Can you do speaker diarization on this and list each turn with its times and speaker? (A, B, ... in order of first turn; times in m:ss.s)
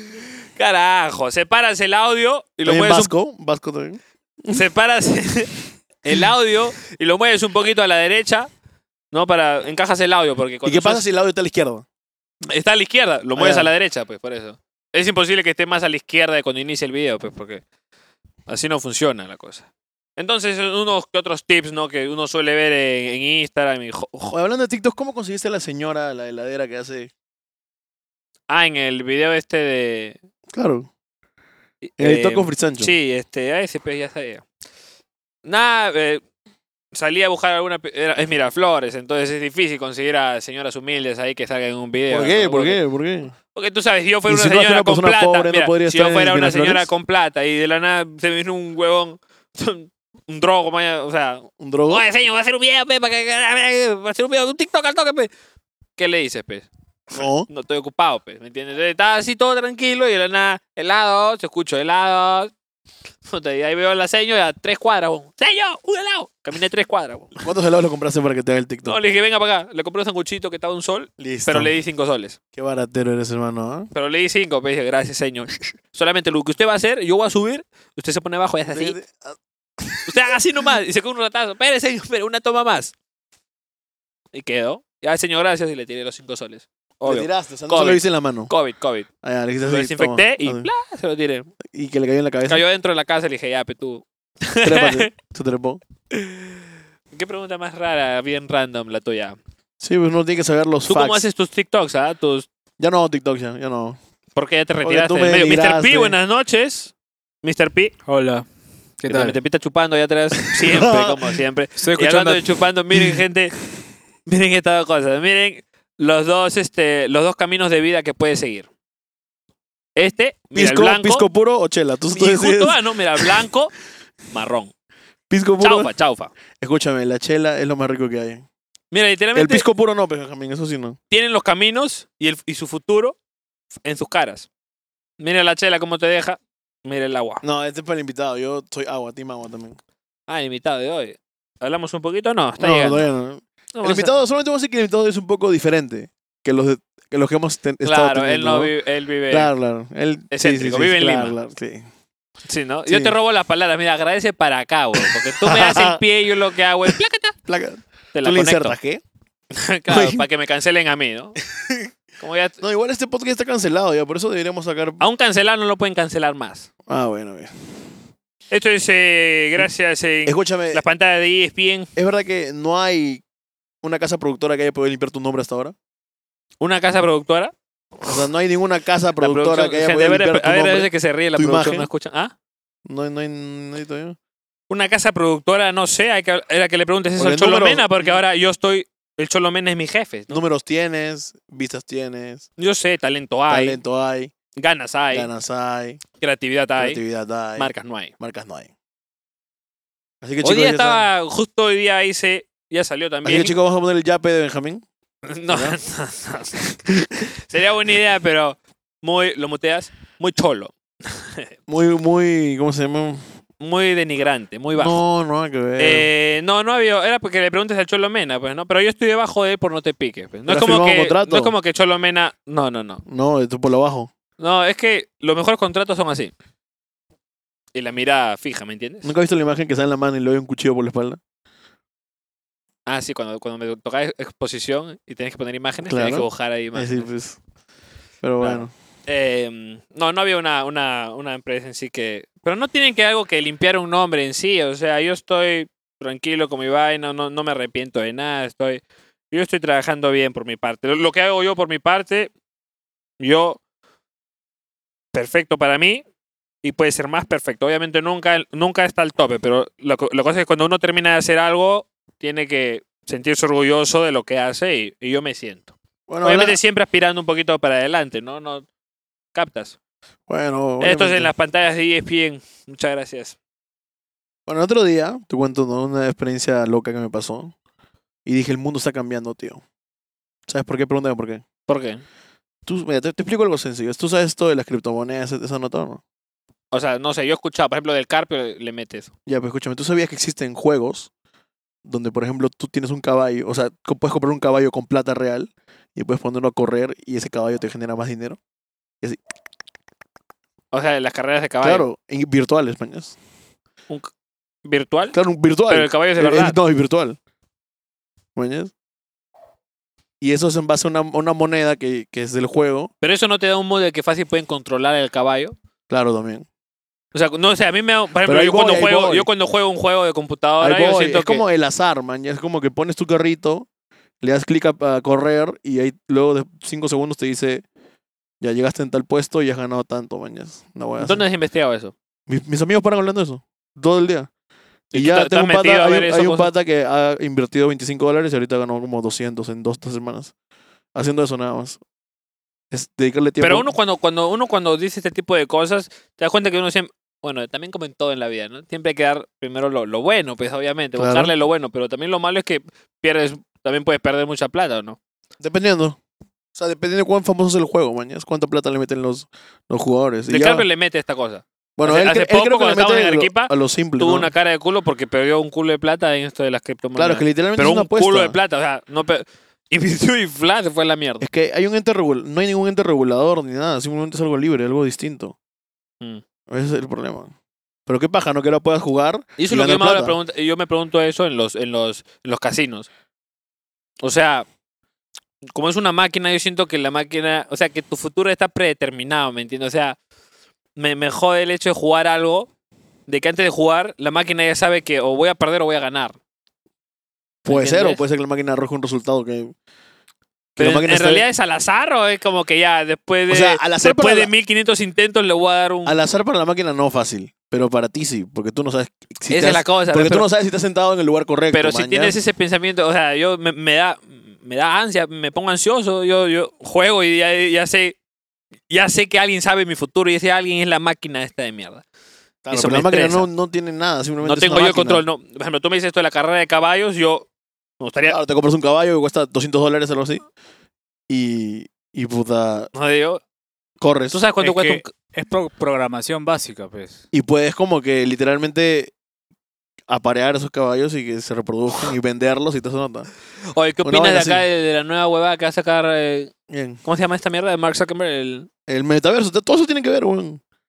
0:00.6-0:03.1 A
0:02.6-0:04.6 B
0:04.5-0:08.5 A
0:09.1-0:11.1 A
0:10.6-0:11.8 B
0:12.5-0:17.6 A
0:13.4-0:13.7 B
0:18.5-0:19.7 A
0:20.2-0:24.4 A
0:24.3-0:27.1 B
0:28.5-0:30.2 A
0:30.5-0:30.9 B
0:31.8-0:34.4 A
0:32.0-0:32.9 B
0:35.4-0:36.2 A
0:36.9-0:42.8 A
0:42.1-0:43.3 B
0:43.6-0:55.3 A
0:44.3-0:46.9 B
0:51.6-0:52.0 B
0:56.0-1:02.5 A
0:57.1-0:57.5 B
1:03.3-1:07.4 A
1:07.4-1:09.0 B
1:08.9-1:12.4 A
1:11.2-1:11.7 B
1:12.5-1:13.9 B
1:13.9-1:19.0 A
1:18.7-1:20.0 B
1:20.1-1:22.9 A
1:24.3-1:29.1 A
1:27.0-1:28.5 B
1:29.2-1:30.7 B
1:29.6-1:31.5 A
1:31.6-1:32.6 B
1:32.5-1:35.1 A
1:34.6-1:35.8 B
1:36.1-1:36.5 A
1:37.1-1:39.4 A
1:39.8-1:41.2 B
1:40.9-1:42.5 A
1:42.8-1:44.0 B
1:44.4-1:47.9 A
1:44.8-1:46.2 B
1:48.1-1:48.5 C
1:49.0-1:49.4 C
1:49.1-1:53.5 A
1:50.4-1:51.0 C
1:50.7-1:51.0 B
1:51.8-1:52.6 C
1:54.3-1:58.7 A
2:00.0-2:01.3 A
2:00.6-2:03.3 B
2:02.1-2:03.7 A
2:04.3-2:04.7 A
2:05.3-2:05.9 B
2:05.6-2:06.3 A
2:06.6-2:08.4 B
2:08.9-2:09.7 A
2:09.4-2:11.0 B
2:11.1-2:13.2 A
2:13.8-2:14.5 A
2:15.2-2:17.4 A
2:17.4-2:19.8 B
2:20.3-2:23.1 A
2:22.6-2:28.7 B
2:23.7-2:24.1 A
2:27.8-2:29.5 A
2:29.3-2:31.9 B
2:30.3-2:31.4 A
2:32.5-2:37.4 A
2:32.9-2:33.2 B
2:35.4-2:36.0 B
2:37.5-2:39.0 B
2:38.1-2:38.8 A
2:39.5-2:41.4 A
2:39.9-2:40.3 B
2:41.5-2:41.9 B
2:42.2-2:42.6 A
2:42.6-2:45.0 B
2:45.0-2:46.7 A
2:46.9-2:47.5 B
2:48.5-2:51.9 A
2:50.3-2:50.8 B
2:52.0-2:53.2 B
2:53.8-2:55.8 B
2:56.6-2:57.5 A
2:58.0-3:01.9 B
2:59.2-3:02.3 A
3:02.9-3:04.2 B
3:04.7-3:10.4 A
3:07.2-3:08.2 B
3:10.3-3:12.5 B
3:12.6-3:13.8 A
3:13.5-3:14.3 B
3:14.6-3:15.3 A
3:15.1-3:16.0 B
3:16.2-3:17.0 A
3:16.8-3:18.7 B
3:17.6-3:18.1 A
3:20.2-3:21.1 B
3:20.4-3:23.6 A
3:23.2-3:24.8 B
3:25.3-3:26.6 A
3:25.5-3:25.8 B
3:27.4-3:31.5 A
3:31.7-3:33.2 B
3:33.6-3:35.0 A
3:34.7-3:36.1 B
3:35.8-3:43.0 A
3:40.5-3:41.6 B
3:43.1-3:44.1 B
3:44.4-3:46.3 A
3:47.7-3:49.1 A
3:49.0-3:51.2 B
3:52.9-3:57.1 A
3:55.8-3:57.4 B
3:58.2-3:58.7 B
3:58.4-4:12.3 A
4:13.2-4:13.6 A
4:15.1-4:16.0 A
4:16.6-4:28.7 A
4:26.1-4:26.6 B
4:29.3-4:29.8 A
4:30.3-4:31.3 B
4:30.8-4:33.4 A
4:34.5-4:37.5 B
4:38.3-4:39.6 B
4:40.5-4:41.4 B
4:41.7-4:42.0 A
4:42.7-4:46.0 B
4:46.7-4:49.1 A
4:49.3-4:51.1 B
4:51.8-4:58.4 B
5:00.7-5:01.9 A
5:01.6-5:03.2 B
5:04.6-5:05.2 A
5:05.1-5:07.2 B
5:05.7-5:06.6 A
5:08.4-5:08.7 B
5:10.2-5:12.9 B
5:13.0-5:15.6 A
5:15.9-5:16.5 B
5:17.1-5:21.4 A
5:18.3-5:19.3 B
5:20.6-5:23.7 B
5:24.2-5:27.6 B
5:28.4-5:31.2 B
5:31.0-5:31.9 A
5:32.3-5:34.3 B
5:34.9-5:36.5 A
5:34.9-5:40.3 B
5:41.0-5:41.8 B
5:42.7-5:43.7 B
5:43.4-5:55.0 A
5:51.0-5:51.3 B
5:55.4-5:56.0 B
5:56.6-6:00.7 B
6:00.3-6:11.2 A
6:01.8-6:04.3 B
6:07.0-6:08.4 B
6:11.2-6:15.4 B
6:16.5-6:17.3 B
6:17.9-6:20.2 B
6:19.4-6:22.9 A
6:24.0-6:24.5 A
6:25.5-6:30.0 A
6:30.8-6:32.5 A
6:33.1-6:36.2 A
6:37.4-6:38.0 A
6:37.5-6:39.5 B
6:40.6-6:41.3 B
6:40.6-6:46.0 A
6:43.3-6:44.3 B
6:45.8-6:52.2 B
6:49.3-6:50.3 A
6:51.5-6:58.0 A
6:58.7-7:01.8 A
7:02.4-7:05.0 B
7:02.5-7:03.3 A
7:04.2-7:07.3 A
7:07.8-7:08.2 A
7:08.1-7:10.2 B
7:11.1-7:12.7 B
7:12.7-7:13.2 A
7:13.8-7:14.2 B
7:14.1-7:14.9 A
7:14.4-7:17.0 C
7:17.1-7:18.9 B
7:19.9-7:23.1 B
7:23.5-7:26.3 A
7:23.8-7:24.5 B
7:26.5-7:26.8 B
7:26.8-7:28.5 A
7:28.7-7:30.4 B